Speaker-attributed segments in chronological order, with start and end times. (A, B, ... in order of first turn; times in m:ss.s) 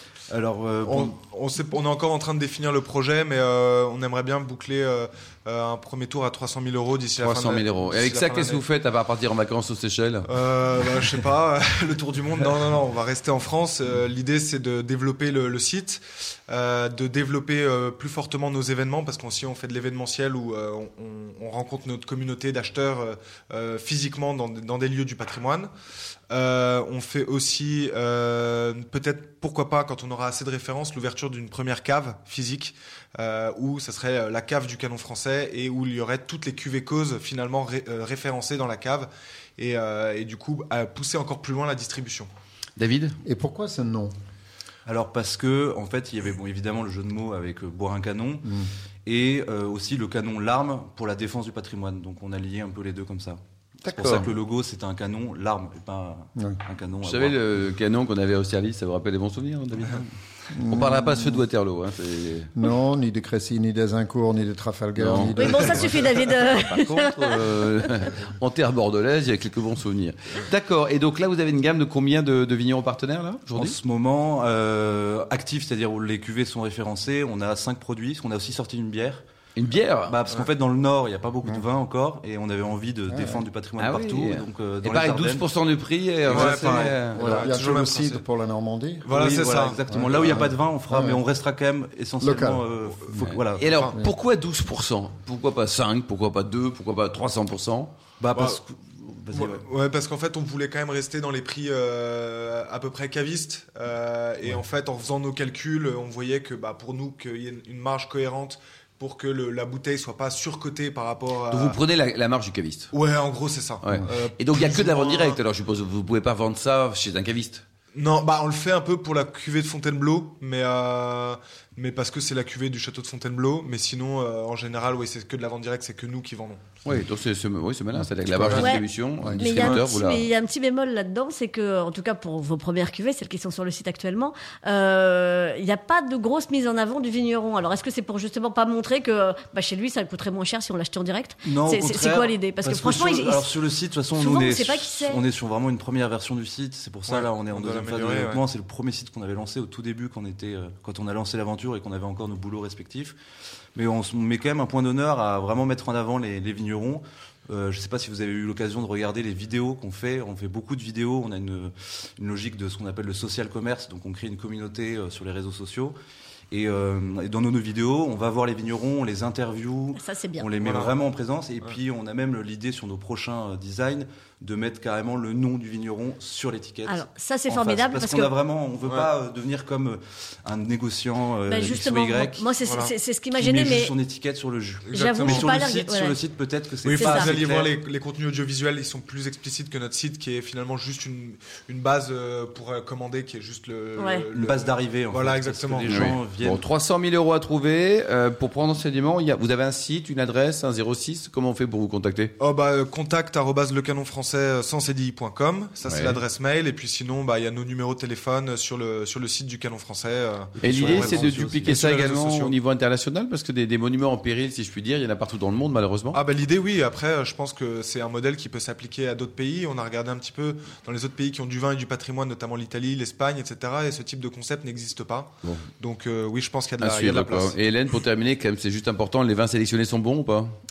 0:00.3-0:01.2 A
0:00.8-0:08.6 B
0:07.2-0:10.3 C
0:10.2-0:25.7 B
0:26.3-0:42.3 B
0:42.8-0:43.2 C
0:43.2-0:44.2 D
0:44.9-0:48.5 A
0:48.4-0:48.7 D
0:49.1-0:57.6 A
0:53.8-0:54.3 C
0:57.0-1:02.5 C
1:00.5-1:01.4 D
1:02.6-1:06.1 D
1:05.0-1:13.8 C
1:05.4-1:07.6 E
1:13.6-1:19.2 A
1:19.6-1:20.2 C
1:20.1-1:25.5 A
1:23.1-1:23.4 D
1:23.8-1:27.4 C
1:26.3-1:27.5 A
1:26.3-1:28.2 B
1:26.3-1:29.1 D
1:29.0-1:30.4 B
1:29.1-1:33.9 A
1:29.9-1:31.2 D
1:32.2-1:32.7 D
1:33.2-1:37.9 C
1:33.9-1:34.1 D
1:38.2-1:39.7 A
1:39.3-1:51.8 B
1:51.5-1:52.9 C
1:52.9-1:55.4 B
1:53.8-1:57.6 C
1:58.0-2:06.7 B
2:06.8-2:10.3 C
2:08.0-2:09.7 D
2:08.6-2:08.9 E
2:09.4-2:23.5 E
2:21.4-2:33.2 A
2:24.2-2:25.2 E
2:27.1-2:28.4 B
2:33.8-2:46.0 A
2:46.5-3:02.5 A
2:50.0-2:50.5 E
2:50.6-2:50.9 B
2:56.9-2:58.3 E
3:01.5-3:03.9 E
3:02.6-3:02.9 B
3:03.4-3:07.8 A
3:04.9-3:05.6 B
3:04.9-3:06.2 E
3:06.8-3:16.1 B
3:07.0-3:07.3 E
3:14.0-3:14.3 E
3:14.3-3:16.6 A
3:15.9-3:22.3 C
3:22.4-3:32.6 B
3:25.8-3:26.2 C
3:30.6-3:31.9 A
3:30.6-3:36.2 C
3:36.1-3:47.6 B
3:46.8-3:50.5 C